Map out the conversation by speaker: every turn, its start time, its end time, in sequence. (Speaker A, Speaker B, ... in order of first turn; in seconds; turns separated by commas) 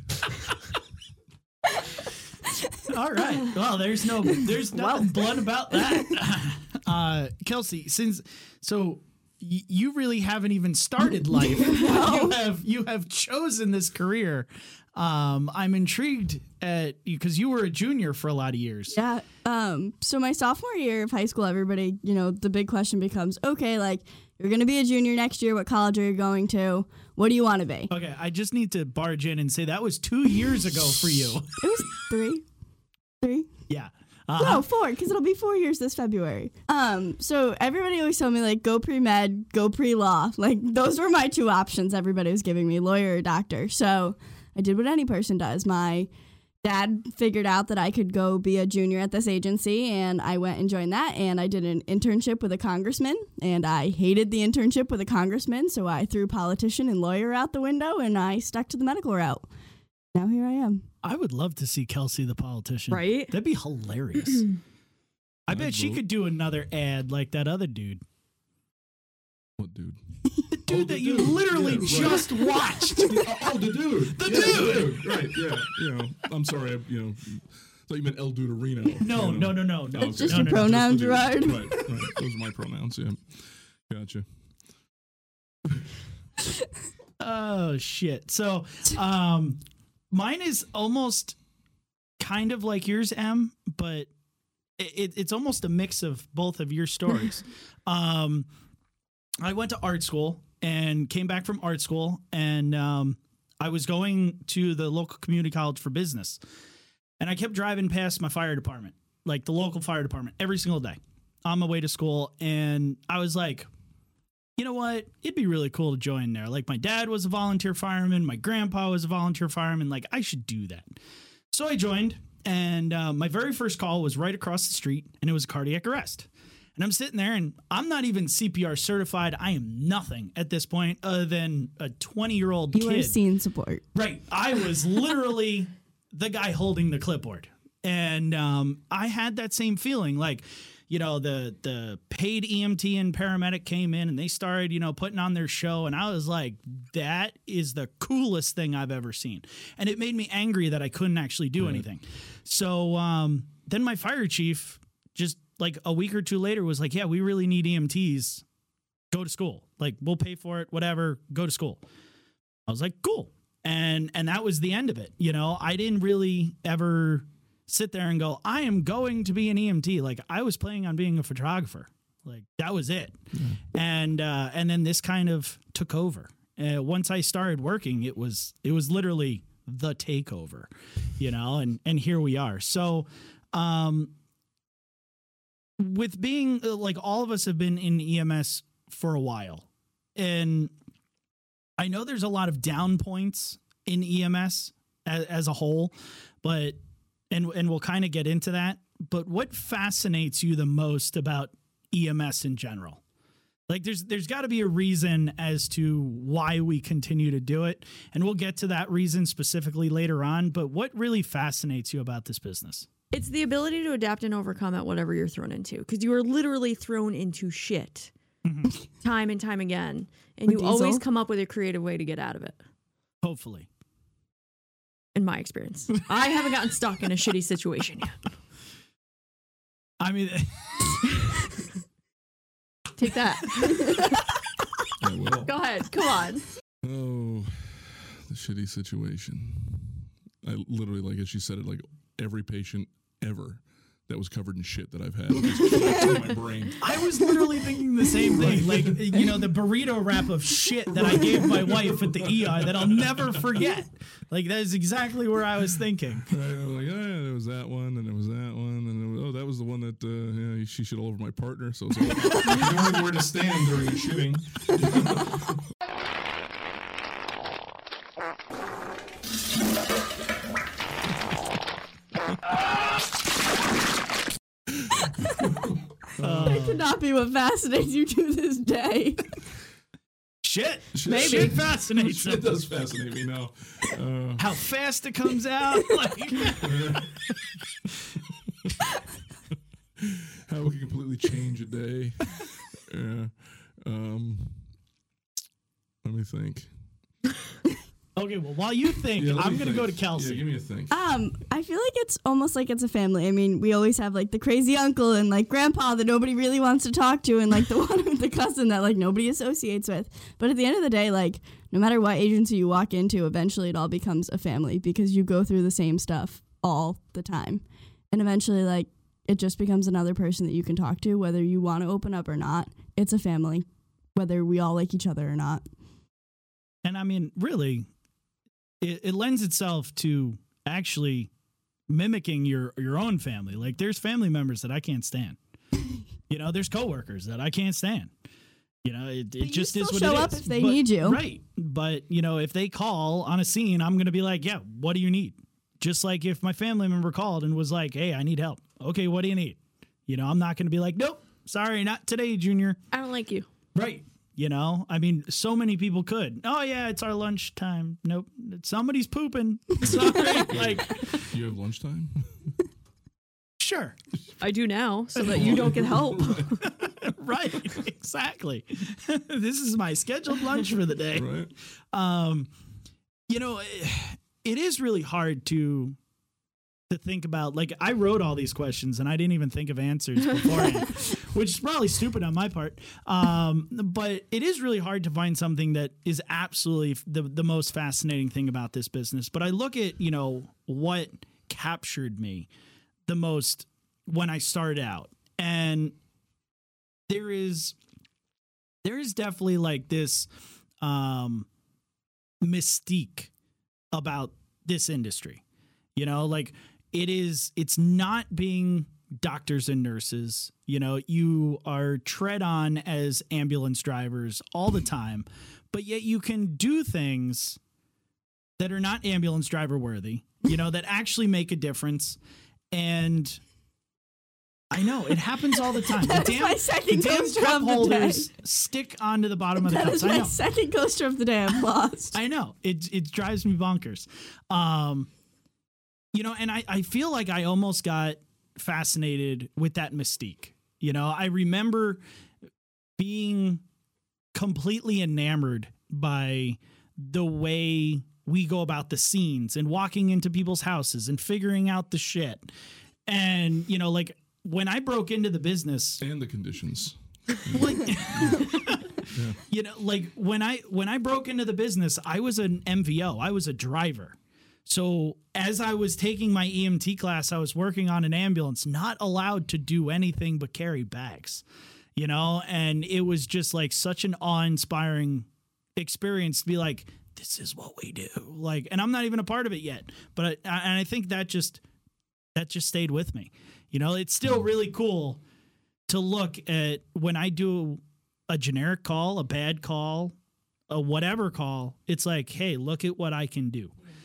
Speaker A: 2.8-19.0, Speaker B: 4.8-5.2, Speaker C: 11.5-12.4, Speaker C: 18.9-27.9, Speaker A: 27.9-31.6, Speaker C: 31.6-32.5, Speaker C: 33.2-33.5, Speaker A: 33.7-34.6, Speaker C: 34.4-46.1, Speaker C: 46.6-59.5, Speaker C: 60.1-60.9, Speaker A: 61.0-64.5, Speaker B: 62.9-63.3, Speaker A: 65.5-68.0, Speaker D: 65.5-66.0, Speaker D: 69.6-70.0, Speaker A: 70.5-73.2, Speaker D: 70.7-84.2, Speaker A: 74.1-75.2, Speaker A: 79.0-80.8, Speaker C: 80.0-82.1, Speaker A: 87.2-89.6, Speaker A: 90.1-91.4, Speaker A: 92.2-94.1, Speaker A: 94.8-98.5, Speaker A: 99.4-106.4, Speaker A: 107.2-113.7, Speaker A: 114.6-120.9, Speaker A: 121.5-133.2, Speaker C: 132.7-133.8, Speaker A: 133.9-158.4, Speaker D: 151.6-151.8, Speaker A: 159.1-161.8, Speaker A: 162.7-173.2, Speaker D: 173.3-173.6, Speaker A: 173.7-184.1, Speaker A: 185.8-190.7, Speaker A: 191.8-196.8, Speaker A: 197.3-203.0, Speaker A: 203.7-212.9, Speaker B: 213.1-218.1, Speaker A: 218.4-218.7, Speaker B: 219.0-222.6, Speaker C: 220.5-221.0, Speaker A: 223.2-223.7, Speaker B: 225.1-228.2, Speaker A: 230.0-230.7, Speaker B: 233.0-234.2, Speaker D: 235.0-235.5, Speaker B: 235.4-236.4, Speaker D: 236.8-246.8, Speaker A: 246.8-256.3, Speaker D: 248.3-249.4, Speaker D: 250.9-253.4, Speaker D: 256.3-265.6, Speaker D: 275.2-276.6, Speaker A: 276.2-276.8, Speaker C: 276.4-279.2, Speaker A: 280.4-282.5, Speaker D: 280.9-284.5, Speaker B: 281.0-281.6, Speaker A: 284.4-286.7, Speaker D: 286.6-287.3, Speaker D: 290.0-294.7, Speaker D: 296.0-296.7, Speaker A: 298.1-300.4, Speaker D: 299.1-300.9, Speaker C: 300.9-325.7, Speaker A: 326.8-327.9, Speaker A: 328.8-331.3, Speaker A: 331.9-335.4, Speaker A: 336.3-338.1, Speaker A: 338.8-352.8, Speaker C: 339.4-341.2, Speaker B: 352.9-353.5, Speaker A: 353.7-361.2, Speaker D: 359.9-362.5, Speaker A: 363.6-363.9, Speaker B: 364.4-366.6, Speaker D: 365.2-366.7, Speaker A: 366.6-371.3, Speaker D: 371.1-371.5, Speaker A: 371.9-372.5, Speaker A: 373.3-376.0, Speaker A: 376.9-392.5, Speaker A: 393.1-395.9, Speaker A: 397.1-397.8, Speaker A: 398.8-400.3, Speaker A: 400.8-401.5, Speaker A: 402.4-403.3, Speaker A: 403.9-405.4, Speaker A: 405.9-417.6, Speaker A: 418.6-422.2, Speaker A: 422.7-423.4, Speaker A: 424.7-430.4, Speaker C: 425.8-428.3, Speaker C: 429.6-432.2, Speaker A: 432.1-435.1, Speaker A: 436.1-442.0, Speaker A: 443.0-443.6, Speaker A: 444.3-452.5, Speaker A: 453.1-456.0, Speaker D: 456.0-459.4, Speaker A: 457.5-471.4, Speaker A: 471.9-481.6, Speaker A: 482.3-485.2, Speaker A: 485.9-490.1, Speaker A: 490.7-493.7